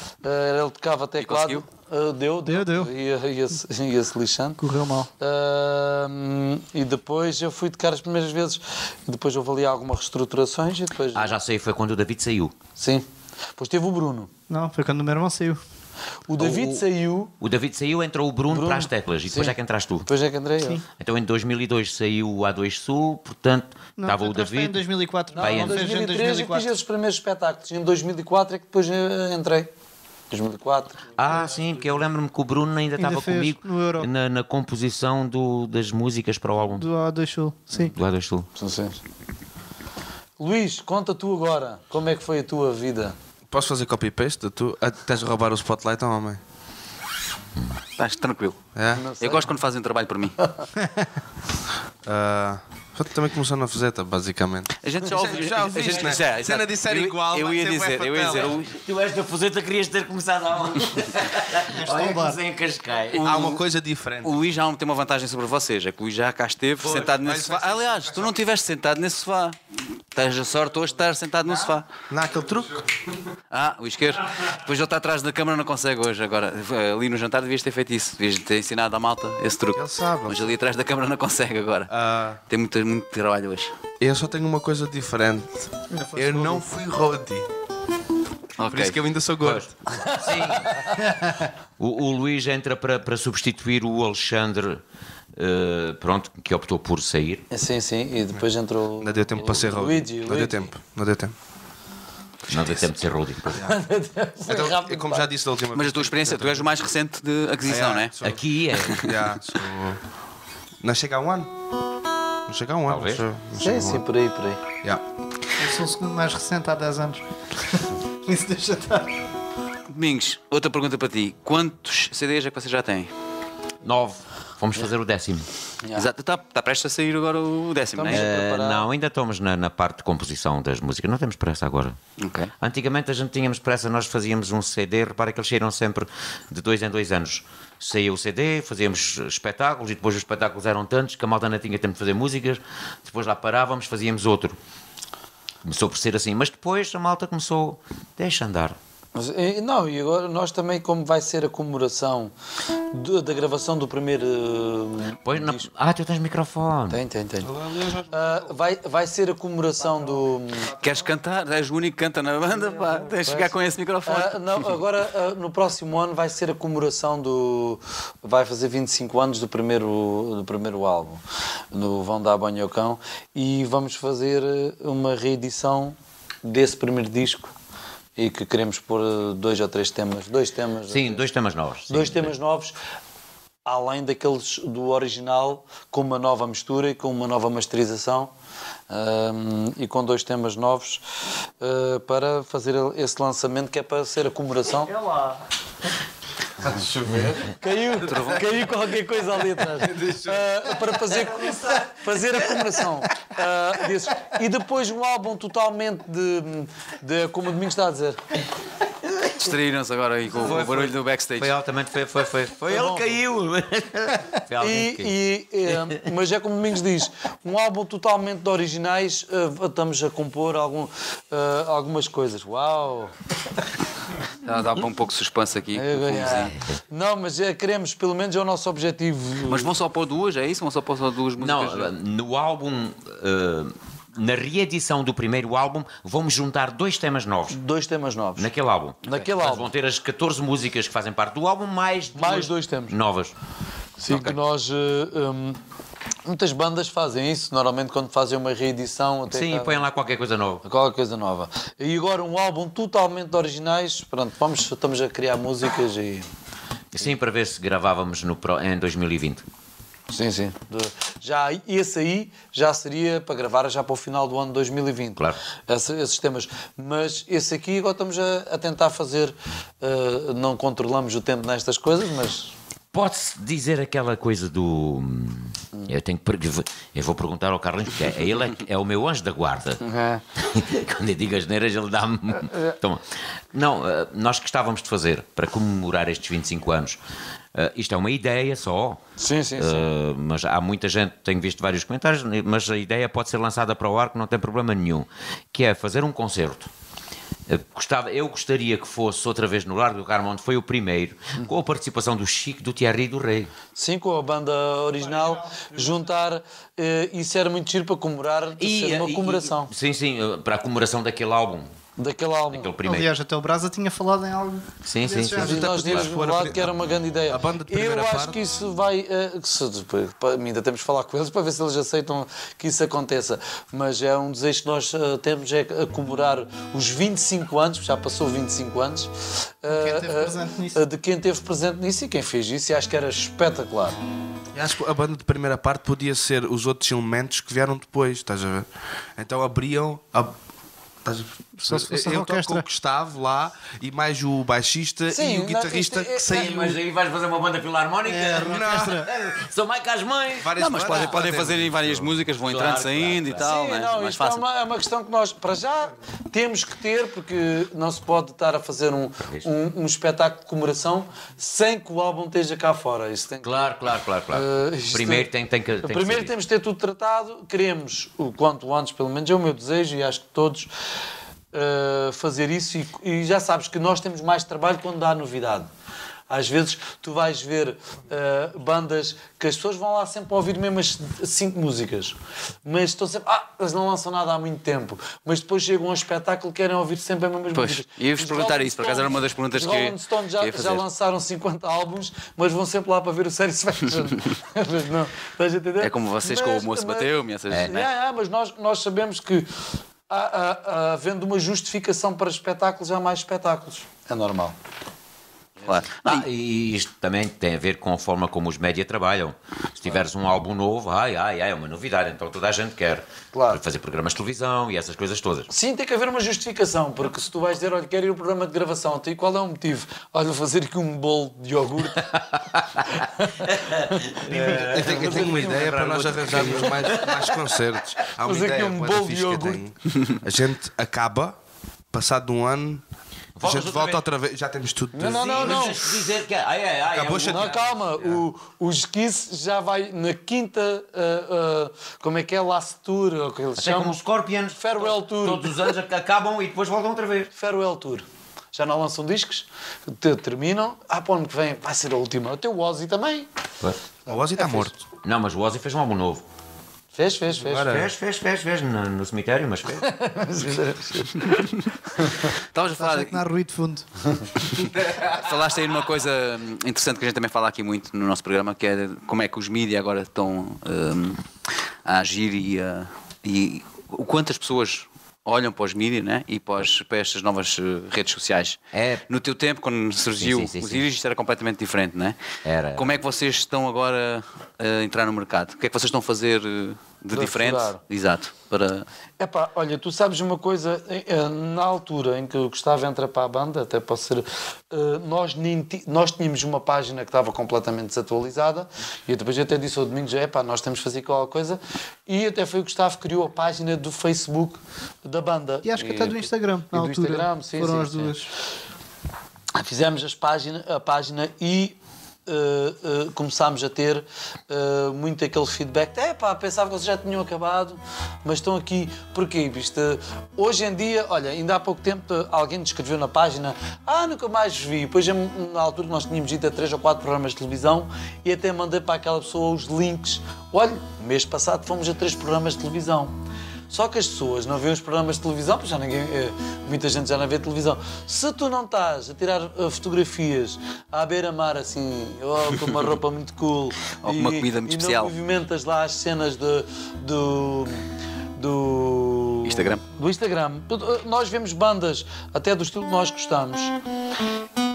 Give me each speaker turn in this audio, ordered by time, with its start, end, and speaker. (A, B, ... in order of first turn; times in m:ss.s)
0:00.2-0:04.6 A
0:01.2-0:01.6 B
0:02.5-0:02.9 C
0:04.6-0:05.1 C
0:05.2-0:11.3 A
0:11.1-0:12.6 D
0:12.8-0:13.1 A
0:13.6-0:14.3 A
0:14.5-0:15.6 C
0:16.3-0:17.3 A
0:16.4-0:16.9 D
0:17.4-0:20.1 D
0:18.5-0:19.6 A
0:20.1-0:20.8 A
0:21.0-0:24.8 D
0:24.0-0:26.7 C
0:25.3-0:29.7 A
0:25.4-0:25.8 D
0:30.3-0:31.2 A
0:31.2-0:36.9 D
0:33.0-0:34.1 C
0:36.7-0:38.0 C
0:37.9-0:38.5 D
0:38.6-0:39.0 A
0:40.4-0:43.2 A
0:43.5-0:46.4 E
0:48.0-0:48.6 B
0:48.8-0:49.0 E
0:48.9-0:49.5 A
0:49.2-0:50.4 B
0:52.0-0:58.5 E
0:54.8-0:58.8 B
0:58.6-1:03.3 D
1:01.7-1:02.4 C
1:03.1-1:03.6 B
1:03.2-1:04.3 E
1:04.2-1:09.6 B
1:06.8-1:08.4 E
1:10.1-1:11.9 B
1:12.1-1:12.8 E
1:13.5-1:21.9 B
1:19.8-1:20.6 E
1:21.9-1:22.4 E
1:22.5-1:23.7 B
1:24.0-1:27.4 E
1:25.9-1:26.6 C
1:28.6-1:29.0 B
1:28.7-1:29.7 E
1:29.4-1:30.8 D
1:29.9-1:31.0 A
1:31.8-1:34.8 D
1:35.4-1:37.5 D
1:37.5-1:40.6 A
1:39.0-1:41.3 E
1:42.5-1:43.7 D
1:43.6-1:45.3 A
1:44.4-1:46.7 E
1:45.8-1:48.1 B
1:47.7-1:48.4 E
1:48.2-1:49.1 D
1:48.8-1:49.2 B
1:48.9-1:50.0 E
1:50.8-1:51.5 E
1:52.5-1:54.0 E
1:52.9-1:53.2 D
1:53.6-1:54.6 A
1:55.6-1:59.1 C
1:59.9-2:03.1 B
2:03.8-2:05.5 D
2:06.0-2:08.3 B
2:08.0-2:08.9 A
2:08.1-2:12.0 D
2:12.2-2:12.5 B
2:12.6-2:24.6 D
2:25.6-2:28.8 D
2:29.2-2:32.3 A
2:32.9-2:35.7 A
2:35.2-2:37.0 D
2:36.9-2:37.6 A
2:37.4-2:38.4 E
2:38.1-2:40.7 A
2:40.8-2:44.7 B
2:43.2-2:43.5 A
2:44.1-2:57.5 A
2:58.2-3:01.2 A
3:00.9-3:02.4 D
3:01.9-3:02.8 A
3:03.6-3:08.3 A
3:08.9-3:11.0 A
3:11.6-3:14.9 A
3:14.9-3:15.4 C
3:16.7-3:17.3 E
3:17.1-3:28.2 A
3:18.0-3:18.4 B
3:20.0-3:20.3 E
3:29.3-3:31.5 B
3:30.3-3:35.2 D
3:32.7-3:33.2 A
3:34.6-3:43.1 A
3:35.7-3:36.0 D
3:44.4-3:46.5 B
3:45.7-3:49.7 A
3:46.1-3:46.8 D
3:49.5-3:51.9 B
3:51.4-3:57.6 D
3:57.5-3:58.5 A
3:58.4-4:03.3 D
3:59.0-3:59.7 A
4:02.2-4:03.0 A
4:04.0-4:05.6 A
4:04.1-4:04.4 D
4:06.2-4:09.8 A
4:09.3-4:10.6 D
4:10.6-4:16.3 A
4:16.9-4:19.4 D
4:20.1-4:32.5 A
4:32.9-4:39.8 D
4:39.8-4:40.2 A
4:40.4-4:47.0 D
4:47.5-4:49.0 D
4:49.2-4:49.9 A
4:49.6-4:56.7 D
4:57.5-5:03.5 D
5:03.8-5:09.7 A
5:05.0-5:06.0 C
5:08.6-5:11.7 D
5:12.0-5:12.7 A
5:12.5-5:13.1 D
5:12.8-5:15.6 C
5:14.9-5:16.1 D
5:15.4-5:16.7 E
5:15.4-5:29.1 A
5:17.3-5:18.4 E
5:29.6-5:34.0 A
5:29.7-5:30.8 C
5:34.5-5:40.3 E
5:41.0-5:46.7 E
5:41.7-5:42.7 C
5:45.1-5:46.7 A
5:46.3-5:51.0 D
5:48.1-5:49.1 C
5:48.4-5:49.1 E
5:50.4-5:52.0 E
5:50.6-5:54.4 B
5:52.5-5:53.5 D
5:53.3-6:03.7 A
6:03.4-6:06.3 D
6:04.3-6:05.3 A
6:05.8-6:10.7 A
6:11.5-6:15.7 A
6:16.3-6:39.5 A
6:27.5-6:30.8 B
6:35.8-6:37.9 B
6:37.5-6:37.8 D
6:40.1-6:44.6 A
6:45.6-6:46.2 B
6:46.0-6:55.5 D
6:53.3-6:53.6 A
6:55.5-7:02.2 A
7:02.9-7:05.8 A
7:03.5-7:07.5 D
7:04.3-7:11.4 E
7:06.2-7:06.6 B
7:08.2-7:09.6 A
7:11.9-7:12.8 E
7:13.4-7:14.0 D
7:13.4-7:15.8 E
7:14.9-7:15.8 A
7:15.0-7:18.2 D
7:16.9-7:17.5 E
7:17.3-7:24.0 A
7:23.6-7:27.3 D
7:24.6-7:25.7 A
7:27.3-7:33.3 A
7:34.0-7:34.8 E
7:35.0-7:36.2 D
7:36.9-7:37.8 A
7:37.4-7:37.9 E
7:37.6-7:39.9 D
7:39.8-7:42.3 A
7:42.5-7:43.2 B
7:42.8-7:43.9 C
7:44.8-7:51.2 B
7:51.8-8:02.2 B
7:58.7-7:59.0 D
8:00.2-8:00.9 D
8:02.4-8:03.0 D
8:02.7-8:08.9 B
8:07.1-8:07.8 A
8:09.2-8:28.2 A
8:25.6-8:28.3 C
8:29.5-8:53.1 A
8:53.7-9:07.8 A
9:04.0-9:05.1 B
9:08.4-9:13.8 A
9:09.4-9:09.8 B